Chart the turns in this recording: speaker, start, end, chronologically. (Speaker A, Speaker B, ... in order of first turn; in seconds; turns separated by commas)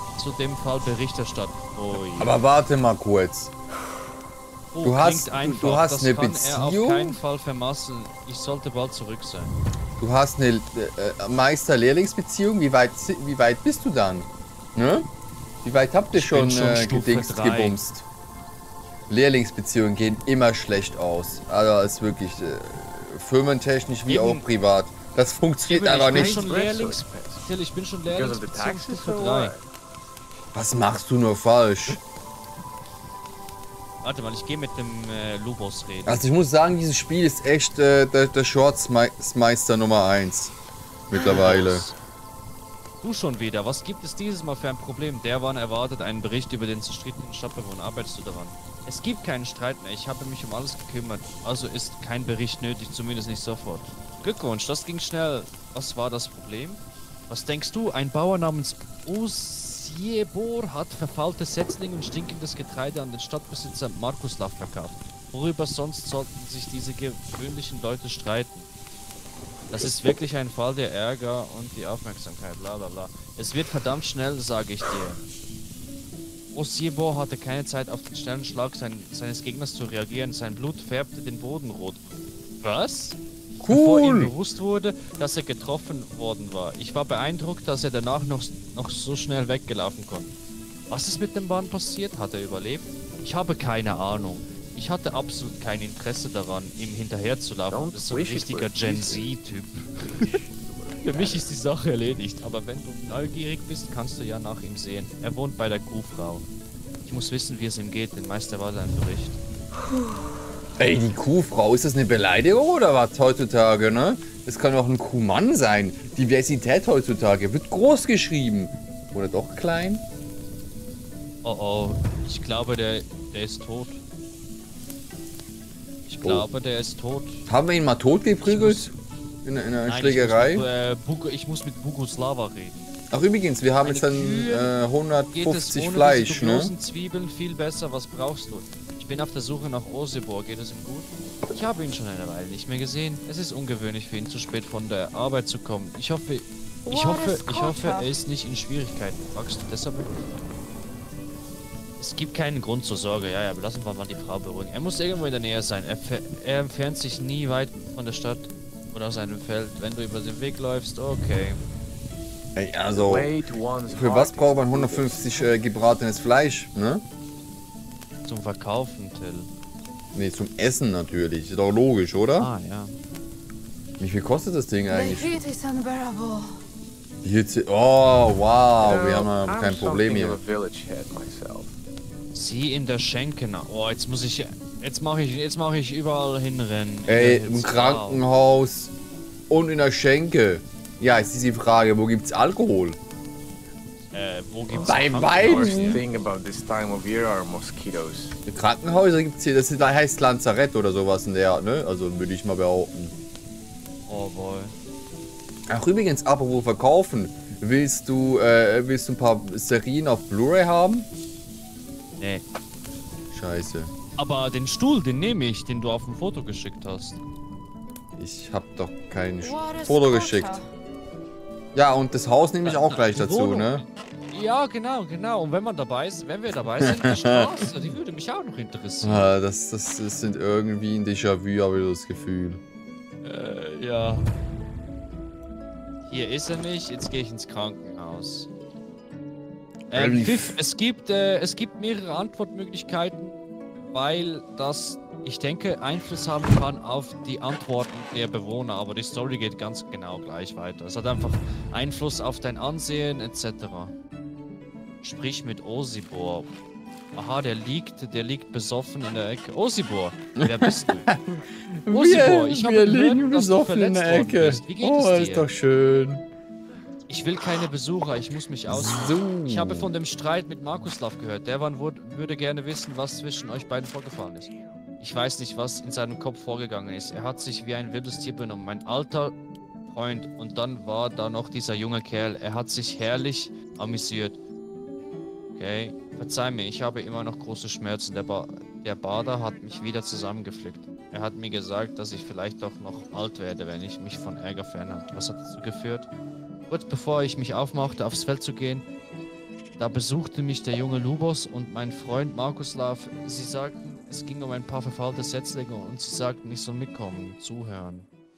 Speaker A: 0.1-2.3, Speaker B: 2.2-3.5, Speaker A: 4.7-9.6, Speaker B: 4.8-7.2, Speaker B: 10.0-15.1, Speaker B: 15.6-18.1, Speaker A: 16.1-17.8, Speaker B: 19.1-26.4, Speaker A: 24.1-24.4, Speaker A: 25.6-29.5, Speaker C: 26.0-27.4, Speaker C: 28.1-29.6, Speaker B: 30.5-32.0, Speaker A: 34.0-36.2, Speaker B: 36.0-40.5, Speaker B: 41.1-41.9, Speaker A: 41.1-42.0, Speaker A: 43.0-68.7, Speaker A: 69.7-75.2, Speaker A: 76.5-90.3, Speaker B: 83.6-84.3, Speaker A: 90.9-100.3, Speaker C: 97.7-99.3, Speaker C: 100.1-101.5, Speaker A: 101.0-106.5, Speaker A: 107.0-109.4, Speaker B: 110.8-120.0, Speaker A: 121.4-124.0, Speaker A: 126.0-127.5, Speaker B: 126.2-126.5, Speaker B: 127.5-128.9, Speaker A: 128.4-128.9, Speaker B: 129.4-130.7, Speaker A: 129.8-132.9, Speaker B: 133.1-136.7, Speaker A: 133.8-134.7, Speaker A: 135.3-150.1, Speaker D: 146.8-148.1, Speaker A: 152.0-161.6, Speaker B: 162.6-163.3, Speaker C: 162.9-165.5, Speaker B: 163.9-167.0, Speaker A: 168.2-169.5, Speaker B: 170.1-172.5, Speaker A: 172.4-172.9, Speaker B: 174.0-175.4, Speaker D: 174.9-176.5, Speaker B: 177.2-180.4, Speaker C: 178.8-181.7, Speaker A: 182.3-188.2, Speaker B: 187.1-188.9, Speaker B: 189.5-193.0, Speaker A: 194.1-196.0, Speaker B: 194.7-196.0, Speaker C: 194.8-198.3, Speaker B: 198.5-203.1, Speaker A: 204.1-204.7, Speaker B: 205.7-211.1, Speaker A: 212.2-212.4, Speaker B: 213.3-213.9, Speaker A: 214.2-217.2, Speaker B: 218.1-220.6, Speaker D: 219.4-220.7, Speaker B: 221.7-223.8, Speaker A: 222.6-229.3, Speaker B: 226.8-227.9, Speaker B: 229.0-232.6, Speaker A: 233.2-234.3, Speaker A: 236.0-238.5, Speaker B: 239.9-240.6, Speaker A: 239.9-253.9, Speaker A: 255.0-256.5, Speaker A: 257.1-261.1, Speaker B: 260.4-266.2, Speaker A: 261.9-265.5, Speaker A: 267.1-279.4, Speaker B: 268.7-269.9, Speaker A: 279.9-284.4, Speaker A: 285.5-296.1, Speaker A: 296.7-298.9, Speaker A: 299.8-308.1